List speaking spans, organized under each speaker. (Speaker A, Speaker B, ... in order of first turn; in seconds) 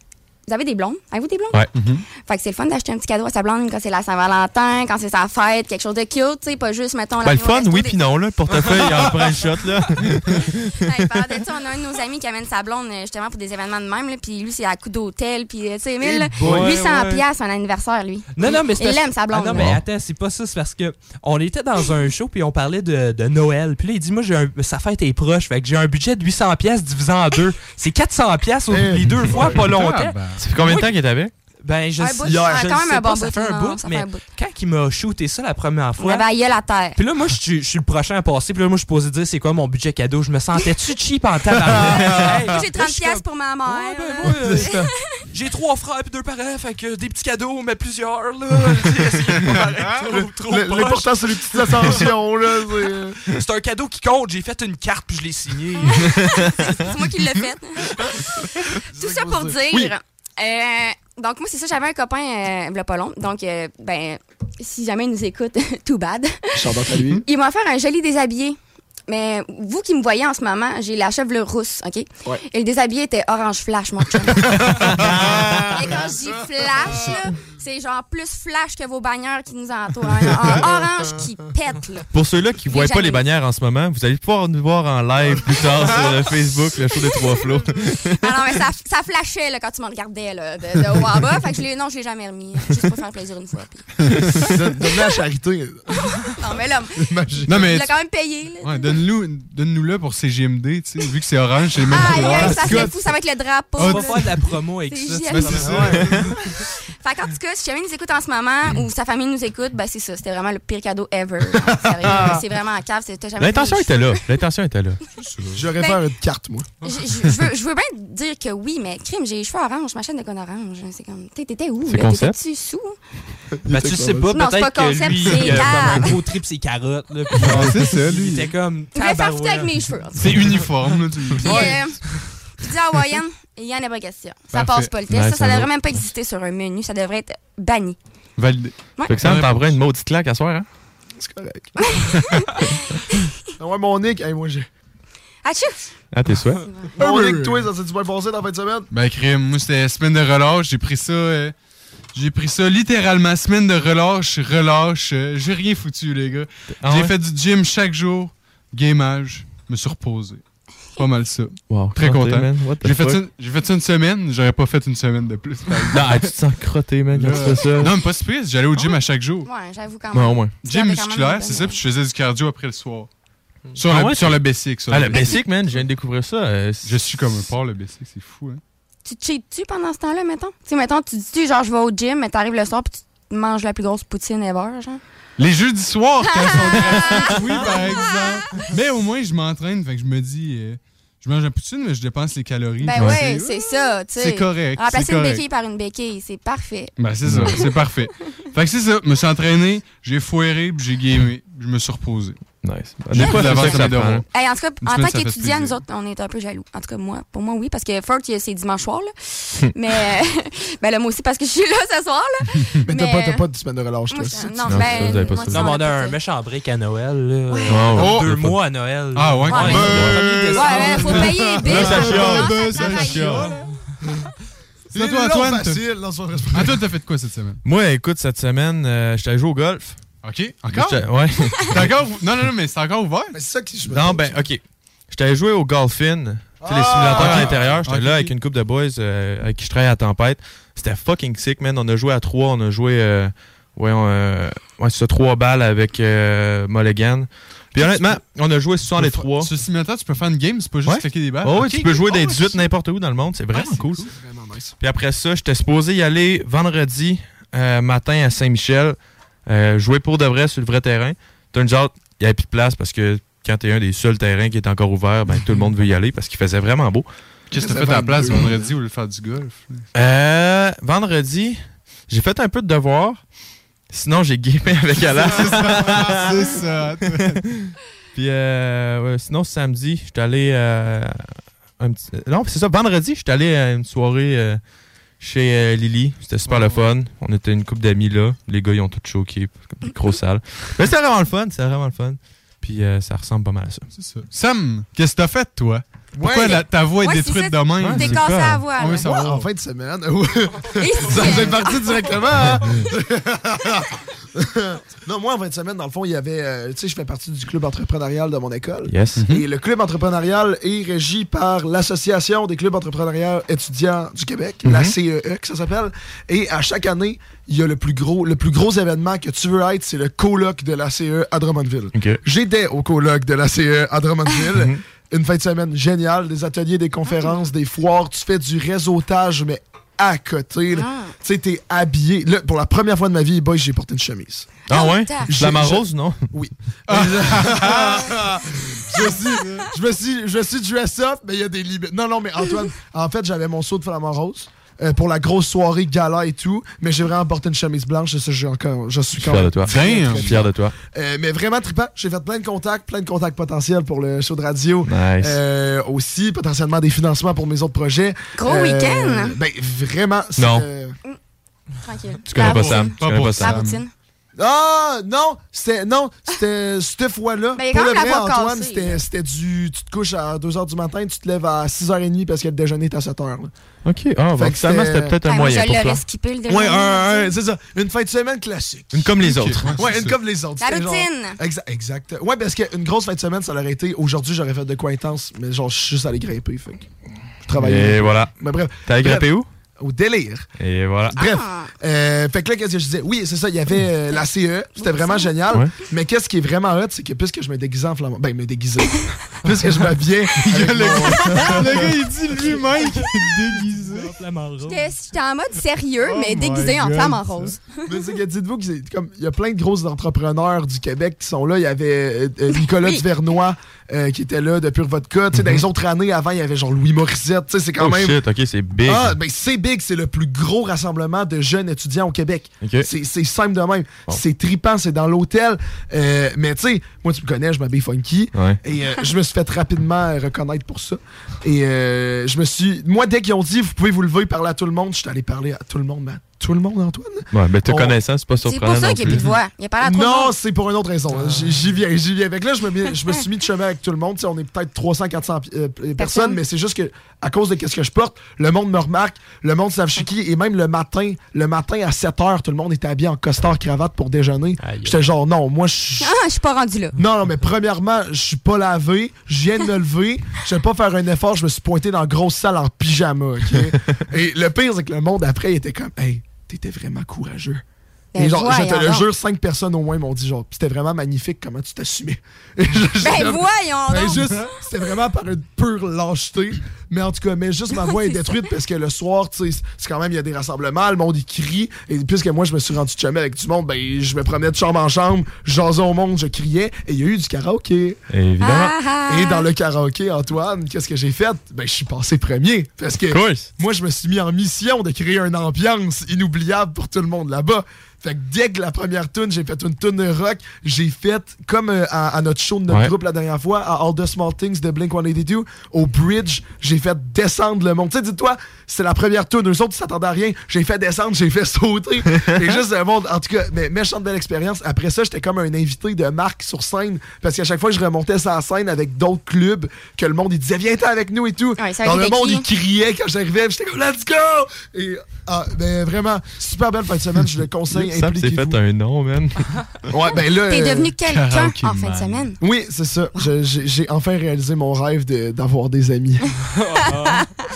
Speaker A: 0.5-1.6, 2.2-8.0, 10.8-19.8, 32.0-34.2, 36.0-37.0, 42.1-44.9, 55.8-66.6, 67.2-68.6, 69.1-75.0, 75.7-82.1, 82.7-83.2, 88.2-93.9, 96.1-97.0, 97.6-98.9, 101.9-104.2, 104.9-106.0, 106.5-114.2, 116.8-123.0, 124.3-126.2, 128.9-130.4, 131.4-132.0, 132.6-138.0, 141.9-142.5, 145.4-145.9, 169.4-171.8, 179.0-185.0, 186.3-188.7, 192.8-197.8, 203.2-213.4, 214.1-216.2, 217.5-217.9, 220.5-223.5, 297.0-299.1, 300.8-302.2, 330.7-331.1, 334.7-335.3, 358.4-359.3, 361.8-363.9, 367.6-369.0, 375.2-377.3, 380.6-381.4, 391.1-391.7, 394.8-395.3, 404.7-407.8, 438.4-440.3, 446.0-446.4, 456.0-457.0, 468.1-469.1, 473.0-474.4, 488.4-489.4, 521.6-522.5, 530.5-532.4, 536.9-537.3
Speaker B: 1.7-2.0, 29.2-30.8, 97.5-97.9, 98.6-102.9, 103.8-104.2, 105.3-106.3, 127.4-128.5, 130.2-131.8, 134.5-134.9, 138.4-139.8, 147.0-147.6, 148.9-151.5, 152.1-160.4, 161.0-166.3, 167.1-169.5, 170.6-173.1, 173.7-175.8, 176.8-178.6, 185.4-195.4, 197.0-202.3, 203.1-204.2, 204.8-205.8, 219.1-223.7, 224.9-225.8, 226.5-227.6, 230.2-231.1, 231.7-233.3, 237.0-238.3, 249.0-252.7, 253.5-253.9, 267.5-269.8, 275.0-277.4, 286.5-286.8, 293.9-299.4, 309.2-309.4, 336.9-338.1, 349.6-350.3, 362.4-363.8, 379.2-380.1, 400.4-404.1, 406.0-407.5, 531.0-532.2
Speaker C: 7.2-10.7, 30.4-31.3, 82.1-88.5, 113.4-115.0, 121.8-122.4, 135.1-136.0, 139.1-140.7, 146.1-146.6, 156.8-157.1, 161.7-163.2, 165.9-167.9, 170.1-170.6, 173.9-176.9, 197.2-197.6, 202.6-204.2, 214.7-215.7, 217.7-218.5, 219.7-220.2, 221.6-223.5, 227.6-230.0, 230.7-231.8, 233.9-249.5, 250.8-254.0, 254.8-267.1, 269.9-273.2, 273.9-276.6, 277.6-281.2, 281.8-284.6, 285.2-293.9, 297.8-298.6, 308.9-309.2, 314.6-314.9, 321.9-322.2, 324.5-324.8, 334.7-336.2, 349.2-350.7, 354.9-355.4, 360.4-360.6, 362.3-363.6, 373.8-376.0, 378.9-379.8, 387.6-388.3, 388.9-389.5, 390.6-391.2, 415.3-415.6, 417.8-419.1, 422.6-422.9, 428.3-428.6, 437.3-439.4, 488.1-488.7, 493.1-493.5, 527.7-529.5
Speaker D: 16.0-16.8, 28.7-29.5, 32.2-32.8, 41.7-42.4, 44.4-44.9, 50.1-53.2, 59.0-59.9, 66.5-67.2, 74.4-76.1, 76.8-77.2, 80.3-80.9, 94.4-96.0, 97.0-97.7, 102.1-103.0, 111.9-112.4, 115.5-116.7, 123.6-124.3, 141.2-141.9, 143.6-144.7, 147.0-148.9, 212.8-215.2, 217.9-218.3, 219.6-221.9, 224.9-226.8, 233.3-234.3, 236.6-237.6, 254.0-254.7, 267.6-268.6, 296.2-296.6, 298.9-334.5, 335.3-360.9, 364.4-373.5, 374.3-375.1, 376.5-379.1, 379.7-386.9, 387.4-389.3, 389.8-390.5, 391.1-401.9, 407.9-418.2, 418.8-437.9, 439.8-456.1, 456.9-467.6, 468.1-488.0, 489.1-528.6, 529.9-530.9, 532.4-536.3
Speaker E: 16.4-17.2, 18.3-30.1, 31.6-36.2, 37.0-44.7, 45.3-52.0, 53.3-56.5, 103.8-106.3, 123.7-129.7, 131.4-131.8, 215.5-221.2, 403.6-404.8, 454.6-455.0, 536.6-537.2